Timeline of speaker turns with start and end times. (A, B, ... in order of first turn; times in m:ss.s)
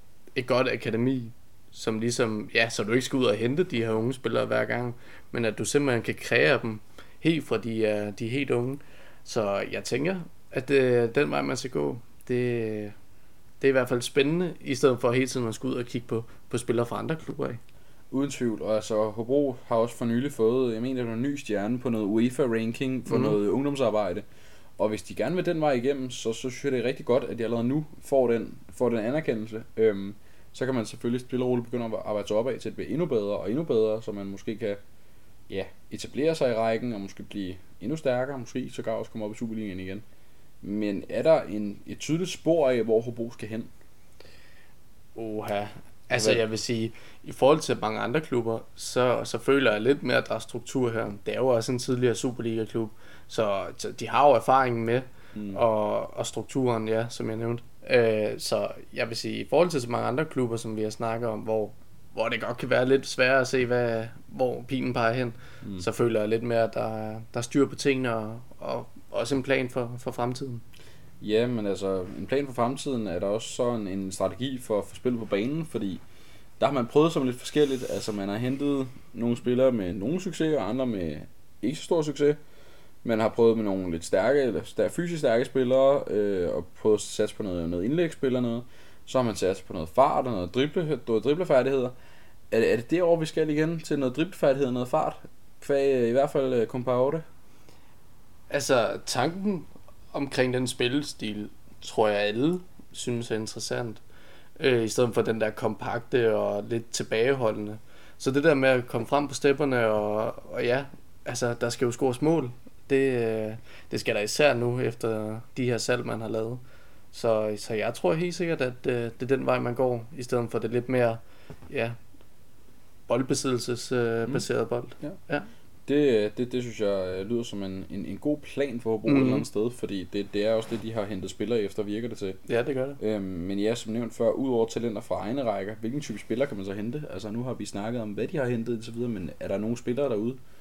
0:00.4-0:13.0 A
0:13.6-0:17.6 A
0:18.1-0:24.2 B
0:23.1-0:23.4 A
0:24.8-0:34.8 B
0:35.5-0:40.0 B
0:40.6-0:43.7 B
0:45.2-1:10.6 A
0:46.1-0:46.4 B
0:55.4-0:55.6 B
1:11.2-1:16.0 B
1:16.6-1:22.4 B
1:23.0-1:32.0 B
1:32.5-1:37.2 B
1:38.5-1:44.0 A
1:44.6-1:56.6 A
1:57.1-2:02.0 A
2:03.1-2:05.5 A
2:05.9-2:12.4 B
2:09.1-2:09.5 A
2:12.5-2:13.0 A
2:13.0-2:20.4 B